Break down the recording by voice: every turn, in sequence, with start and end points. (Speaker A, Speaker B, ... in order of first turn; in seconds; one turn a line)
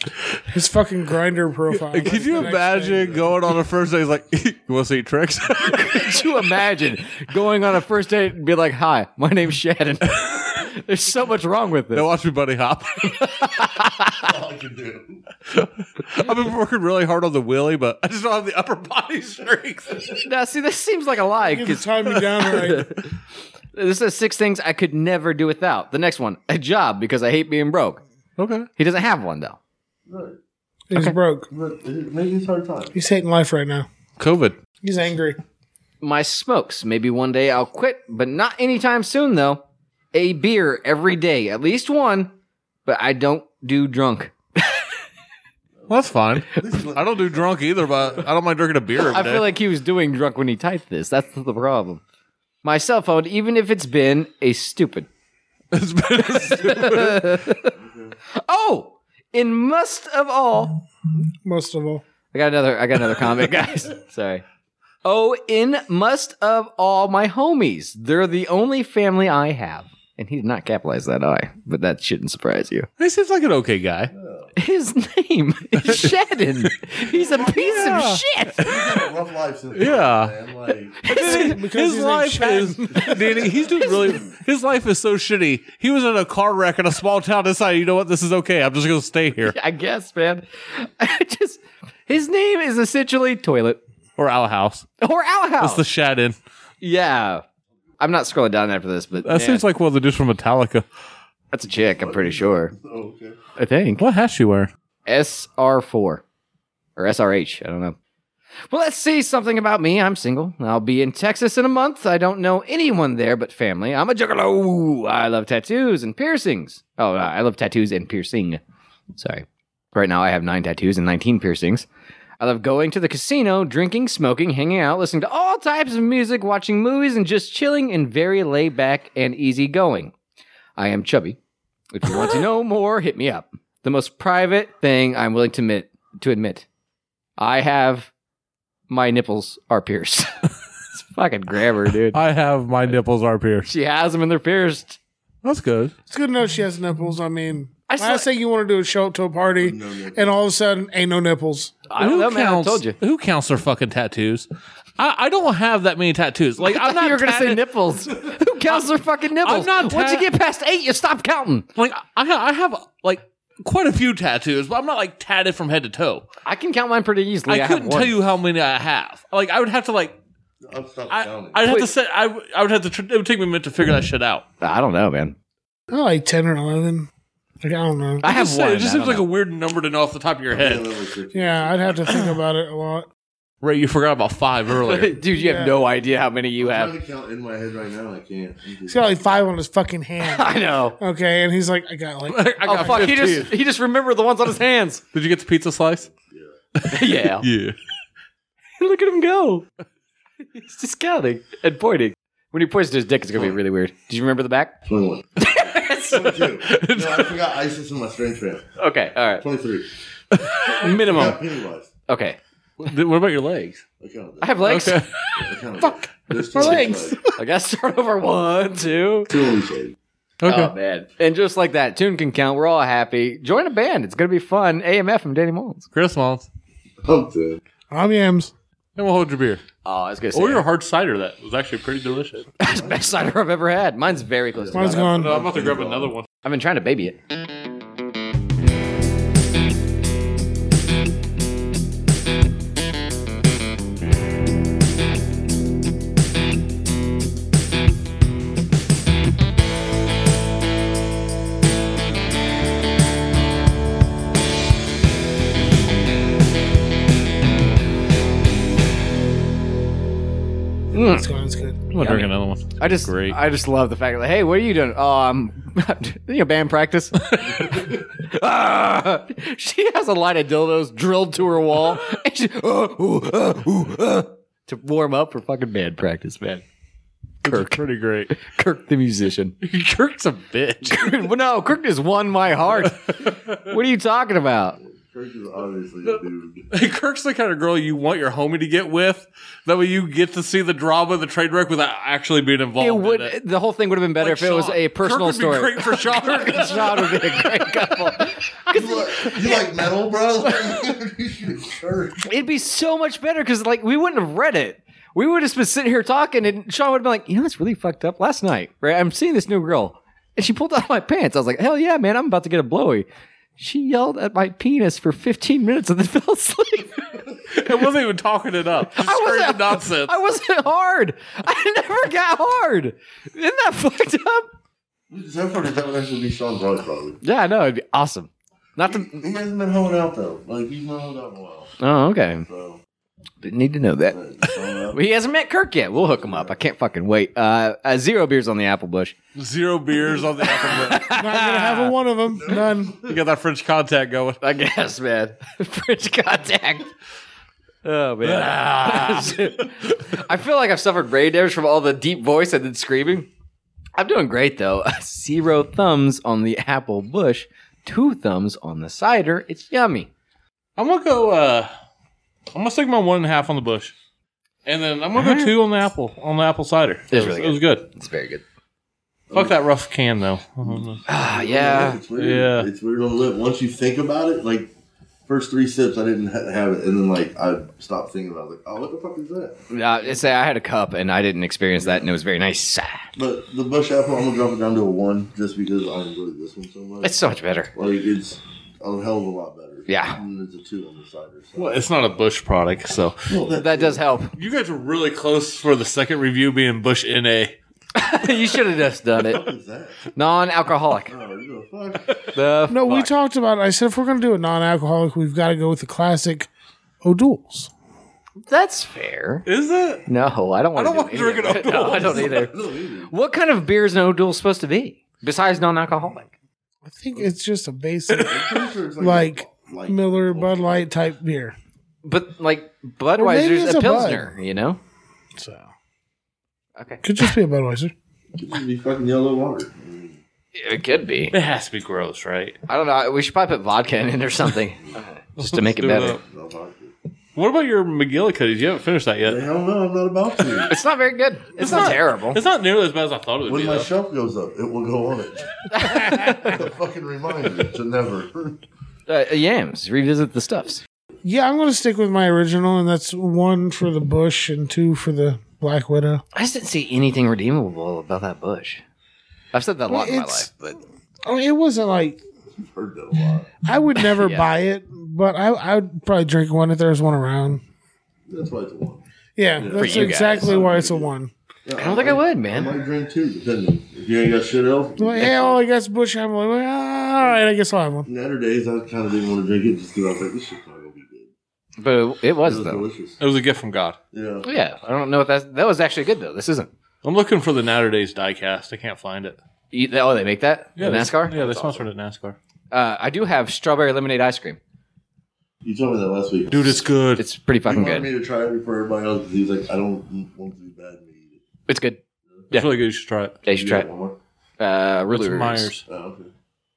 Speaker A: 0.5-3.2
Speaker B: 1.8-6.1
Speaker C: 5.7-12.1
Speaker B: 11.9-13.2
Speaker C: 13.1-14.3
Speaker D: 14.2-15.2
Speaker B: 15.5-20.0
Speaker C: 20.2-23.1
Speaker A: 21.4-22.9
Speaker C: 23.7-28.0
Speaker B: 28.4-28.7
Speaker C: 28.8-29.6
Speaker D: 30.1-30.4
Speaker A: 30.9-31.5
Speaker D: 31.5-33.0
Speaker A: 33.0-33.9
Speaker B: 34.2-34.5
Speaker A: 34.8-35.4
Speaker C: 36.0-42.3
Speaker C: 42.9-44.8
Speaker D: 45.7-48.3
Speaker B: 45.9-49.5
Speaker C: 49.0-52.0
Speaker C: 52.6-55.1
Speaker B: 55.7-57.4
Speaker C: 56.2-57.7
Speaker D: 57.8-58.2
Speaker C: 58.3-60.8
Speaker A: 61.4-62.0
Speaker C: 62.3-64.4
Speaker C: 65.0-72.9
Speaker B: 73.0-74.1
Speaker D: 74.1-74.5
Speaker C: 74.5-78.7
Speaker D: 77.0-81.0
Speaker B: 77.5-78.8
Speaker B: 79.7-80.3
Speaker C: 81.0-81.6
Speaker B: 81.1-89.5
Speaker A: 81.1-83.1
Speaker C: 82.7-84.2
Speaker D: 83.0-83.9
Speaker C: 89.4-93.8
Speaker B: 94.2-94.8
Speaker C: 95.0-95.8
Speaker B: 95.6-96.4
Speaker C: 96.8-97.4
Speaker C: 98.0-99.6
Speaker B: 99.2-100.9
Speaker C: 101.5-102.7
Speaker D: 101.7-103.4
Speaker C: 103.6-104.0
Speaker B: 104.0-104.7
Speaker C: 105.0-106.2
Speaker C: 107.0-108.0
Speaker C: 108.7-118.6
Speaker C: 119.2-121.9
Speaker C: 122.4-130.1
Speaker C: 130.8-131.4
Speaker C: 131.9-136.7
Speaker C: 137.4-138.1
Speaker C: 138.9-140.3
Speaker C: 140.9-142.2
Speaker B: 142.1-143.7
Speaker C: 143.7-145.0
Speaker B: 145.4-145.9
Speaker A: 146.1-151.7
Speaker C: 147.9-148.3
Speaker D: 149.6-150.3
Speaker C: 151.9-153.0
Speaker B: 152.0-157.6
Speaker C: 156.6-161.7
Speaker B: 159.4-160.3
Speaker B: 161.8-166.3
Speaker C: 166.4-168.1
Speaker B: 167.5-170.2
Speaker D: 170.6-171.6
Speaker B: 171.1-174.4
Speaker C: 171.6-171.9
Speaker C: 174.6-175.4
Speaker A: 175.9-177.1
Speaker A: 177.6-178.2
Speaker C: 178.2-179.2
Speaker B: 178.2-180.9
Speaker D: 180.5-182.0
Speaker A: 181.3-183.1
Speaker B: 182.1-182.4
Speaker B: 183.6-185.1
Speaker C: 184.8-186.9
Speaker A: 185.3-185.8
Speaker D: 186.6-189.1
Speaker A: 188.9-192.5
Speaker C: 190.2-191.0
Speaker B: 192.3-193.5
Speaker C: 192.6-195.0
Speaker B: 195.1-196.1
Speaker D: 196.1-196.6
Speaker B: 196.8-197.8
Speaker C: 196.9-197.5
Speaker C: 198.8-199.7
Speaker C: 200.5-204.8
Speaker D: 204.9-208.7
Speaker C: 205.4-206.4
Speaker B: 206.6-207.4
Speaker C: 208.8-209.4
Speaker D: 209.4-209.9
Speaker B: 210.3-211.3
Speaker C: 210.8-211.4
Speaker D: 210.9-211.9
Speaker C: 212.1-212.4
Speaker B: 212.8-213.8
Speaker D: 214.0-217.2
Speaker C: 214.4-215.0
Speaker B: 214.6-215.3
Speaker A: 216.5-217.2
Speaker C: 217.3-219.3
Speaker D: 219.3-219.9
Speaker B: 220.4-220.7
Speaker C: 220.4-225.9
Speaker B: 225.9-226.5
Speaker D: 227.0-227.6
Speaker A: 227.9-228.5
Speaker B: 228.9-229.6
Speaker C: 229.8-230.6
Speaker B: 230.3-232.5
Speaker C: 232.6-235.2
Speaker D: 232.6-233.3
Speaker D: 234.6-236.1
Speaker A: 234.7-235.4
Speaker B: 235.0-236.3
Speaker C: 236.4-237.2
Speaker C: 260.9-261.3
Speaker A: 261.1-261.8
Speaker B: 261.9-263.4
Speaker C: 262.0-276.6
Speaker D: 267.6-268.0
Speaker B: 277.4-278.3
Speaker C: 277.4-279.6
Speaker B: 279.6-281.1
Speaker C: 280.8-284.8
Speaker B: 282.8-283.7
Speaker D: 284.8-286.7
Speaker B: 286.7-293.3
Speaker C: 292.8-299.6
Speaker B: 294.2-298.1
Speaker D: 298.7-302.3
Speaker C: 302.2-313.1
Speaker C: 313.6-317.2
Speaker B: 317.5-320.1
Speaker C: 318.9-324.5
Speaker D: 325.1-327.2
Speaker C: 327.2-329.2
Speaker D: 328.9-331.7
Speaker C: 331.8-332.5
Speaker D: 332.5-332.8
Speaker C: 333.4-334.2
Speaker D: 334.1-335.0
Speaker C: 334.9-339.1
Speaker D: 335.9-336.6
Speaker B: 339.4-341.1
Speaker D: 340.4-340.9
Speaker C: 340.4-342.0
Speaker A: 341.1-343.0
Speaker D: 342.3-343.2
Speaker B: 342.5-344.4
Speaker C: 344.4-346.9
Speaker C: 347.8-353.3
Speaker B: 348.2-350.0
Speaker C: 354.0-360.1
Speaker B: 360.8-361.7
Speaker B: 362.5-363.9
Speaker B: 364.7-367.9
Speaker C: 365.2-365.5
Speaker C: 367.1-368.4
Speaker D: 369.3-369.6
Speaker B: 369.3-371.0
Speaker D: 370.7-374.7
Speaker C: 371.1-372.0
Speaker B: 372.1-372.7
Speaker D: 375.3-380.3
Speaker C: 379.7-383.1
Speaker D: 381.8-382.1
Speaker D: 383.1-387.1
Speaker C: 387.0-387.7
Speaker D: 387.7-391.9
Speaker C: 389.9-390.2
Speaker B: 391.6-393.3
Speaker D: 393.3-394.0
Speaker C: 393.5-394.3
Speaker B: 394.4-397.6
Speaker C: 397.9-399.4
Speaker D: 399.1-400.1
Speaker C: 400.1-401.1
Speaker D: 401.1-402.1
Speaker C: 402.3-403.1
Speaker A: 402.7-406.5
Speaker A: 407.0-407.7
Speaker C: 408.4-409.4
Speaker B: 409.4-410.1
Speaker C: 410.1-412.5
Speaker B: 410.8-412.4
Speaker D: 411.7-413.1
Speaker C: 413.1-416.3
Speaker A: 416.9-421.6
Speaker D: 418.2-420.9
Speaker C: 422.0-424.8
Speaker A: 423.2-424.3
Speaker A: 425.4-425.7
Speaker C: 426.8-427.0
Speaker A: 427.0-427.9
Speaker D: 428.3-430.2
Speaker C: 430.6-431.3
Speaker B: 431.3-432.6
Speaker C: 432.7-436.2
Speaker B: 435.4-436.2
Speaker D: 435.8-436.9
Speaker B: 437.4-439.4
Speaker D: 439.2-440.8
Speaker C: 440.7-442.4
Speaker B: 441.6-443.9
Speaker D: 443.5-448.6
Speaker C: 445.7-446.6
Speaker C: 449.1-450.8
Speaker A: 451.2-456.2
Speaker C: 456.3-458.8
Speaker C: 459.5-460.8
Speaker A: 459.9-460.5
Speaker A: 461.3-462.2
Speaker D: 462.5-463.5
Speaker A: 463.6-467.6
Speaker C: 464.1-464.5
Speaker D: 468.3-469.0
Speaker A: 469.4-471.3
Speaker D: 469.6-471.1
Speaker C: 469.7-470.6
Speaker D: 471.6-475.6
Speaker C: 471.8-472.7
Speaker A: 475.0-478.1
Speaker D: 478.1-481.3
Speaker C: 481.8-482.9
Speaker D: 482.4-483.2
Speaker B: 483.2-484.0
Speaker D: 484.1-484.5
Speaker C: 484.4-486.7
Speaker B: 487.0-489.4
Speaker C: 489.7-491.8
Speaker B: 490.8-492.4
Speaker C: 492.7-494.6
Speaker D: 495.6-496.9
Speaker B: 496.5-497.2
Speaker C: 497.2-498.1
Speaker D: 497.6-501.4
Speaker C: 501.7-502.0
Speaker B: 502.5-503.4
Speaker C: 503.4-503.9
Speaker D: 503.5-504.2
Speaker C: 504.6-505.7
Speaker B: 505.1-505.8
Speaker D: 505.9-506.3